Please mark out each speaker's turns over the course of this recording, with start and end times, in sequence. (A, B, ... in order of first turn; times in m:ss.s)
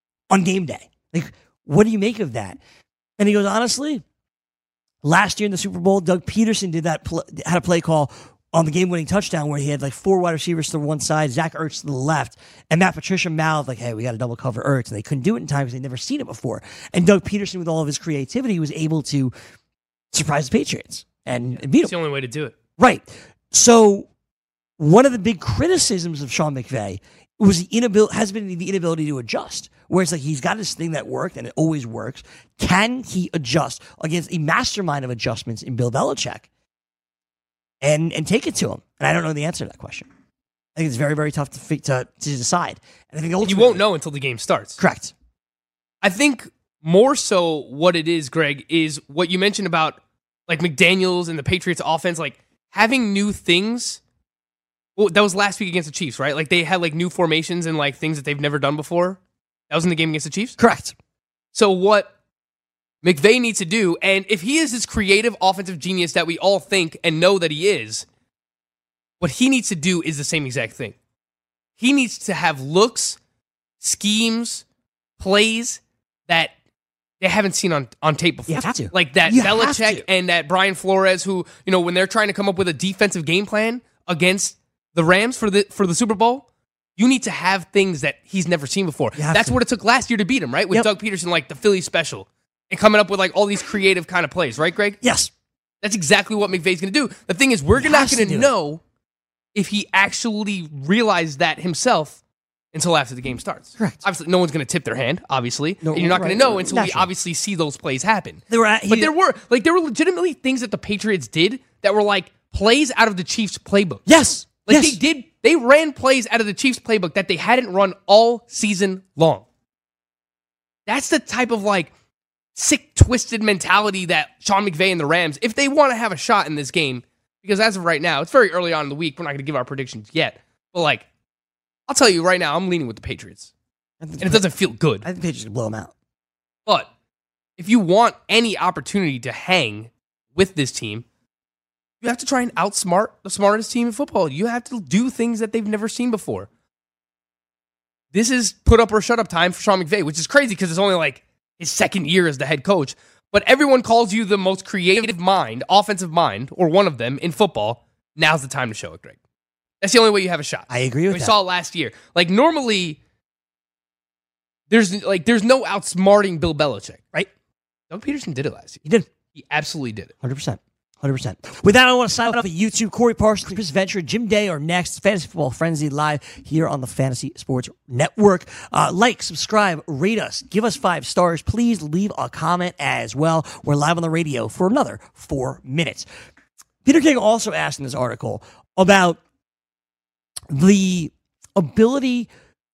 0:00.3-0:02.6 A
0:03.2-0:04.0 A
0:05.0-0:19.3 A
0:20.1-0:21.9 A
0:21.5-0:22.5 B
0:22.8-0:24.1 A
0:24.8-0:36.5 A
0:37.8-0:40.1 A
0:40.8-0:43.8 A
0:43.4-0:44.8 B
0:44.8-0:45.1 A
0:46.0-0:54.0 B
0:55.0-0:59.2 B
0:59.7-1:00.6 B
1:00.6-1:00.9 A
1:01.5-1:02.1 B
1:03.0-1:08.0 B
1:09.2-1:10.9 B
1:11.8-1:13.2 B
1:13.8-1:14.6 B
1:15.2-1:16.5 B
1:17.2-1:26.4 B
1:18.5-1:20.0 A
1:27.0-1:35.0 B
1:29.2-1:29.6 A
1:35.0-1:35.3 A
1:35.8-1:38.8 B
1:37.7-1:38.5 A
1:39.5-1:42.2 B
1:42.7-1:54.0 B
1:45.8-1:47.1 A
1:48.5-1:49.1 A
1:54.1-1:55.0 A
1:54.7-1:59.4 B
2:00.8-2:01.9 B
2:02.6-2:11.0 B
2:11.9-2:13.5 B
2:14.0-2:15.9 A
2:14.2-2:15.0 B
2:17.6-2:21.0 B
2:22.0-2:26.5 B
2:28.1-2:39.2 B
2:39.8-2:43.0 B
2:40.7-2:41.3 A
2:44.7-2:47.0 B
2:47.9-2:50.1 B
2:50.2-3:06.0 A
3:06.8-3:09.2 A
3:10.5-3:12.3 A